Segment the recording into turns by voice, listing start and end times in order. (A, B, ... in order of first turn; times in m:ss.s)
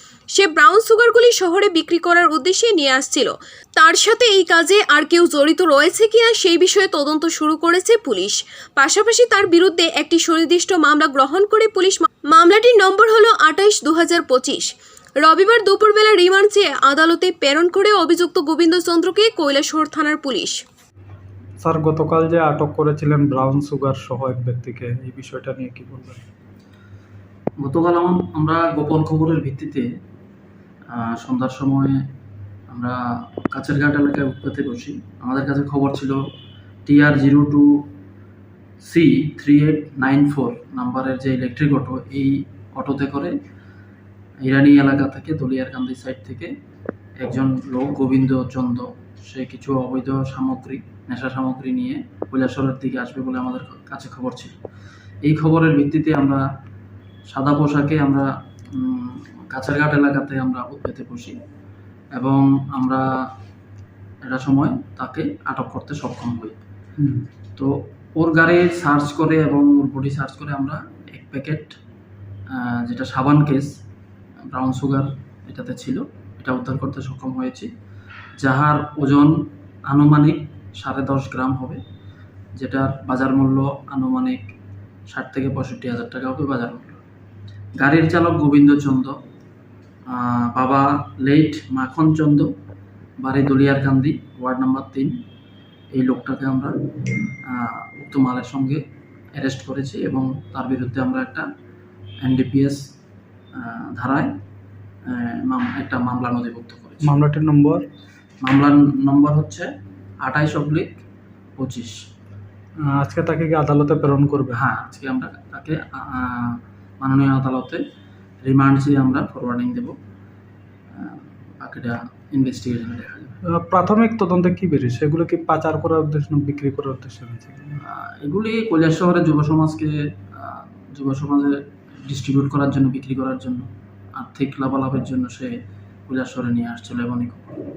0:00.3-0:20.6 A
0:21.6-0:26.2 B
0:27.6-0:29.9 C
0:30.9-0:32.1 C
0:32.7-0:36.2 C
0:36.9-0:37.9 C
0:38.8-0:43.4 C
0:44.4-0:46.5 C
0:47.2-0:54.5 C
0:55.2-0:56.4 C
0:57.3-1:01.4 C
1:02.2-1:03.0 C
1:04.2-1:06.6 C
1:07.0-1:07.3 B
1:07.6-1:11.8 C
1:12.5-1:13.7 C
1:14.5-1:17.7 C
1:18.4-1:21.8 C
1:22.6-1:24.4 C
1:25.1-1:27.0 C
1:27.8-1:29.2 C
1:30.1-1:32.5 C
1:33.2-1:35.2 C
1:35.9-1:36.8 C
1:37.5-1:38.8 C
1:39.4-1:41.5 C
1:42.2-1:42.8 C
1:43.6-1:44.3 C
1:45.1-1:47.1 C
1:47.0-1:47.9 B
1:48.4-1:49.7 C
1:50.2-1:51.0 C
1:51.6-1:52.0 C
1:52.9-1:54.6 B
1:54.5-1:57.8 C
1:58.4-2:00.0 C
2:01.0-2:03.3 C
2:03.4-2:07.8 B
2:07.9-2:15.6 C
2:16.1-2:17.6 C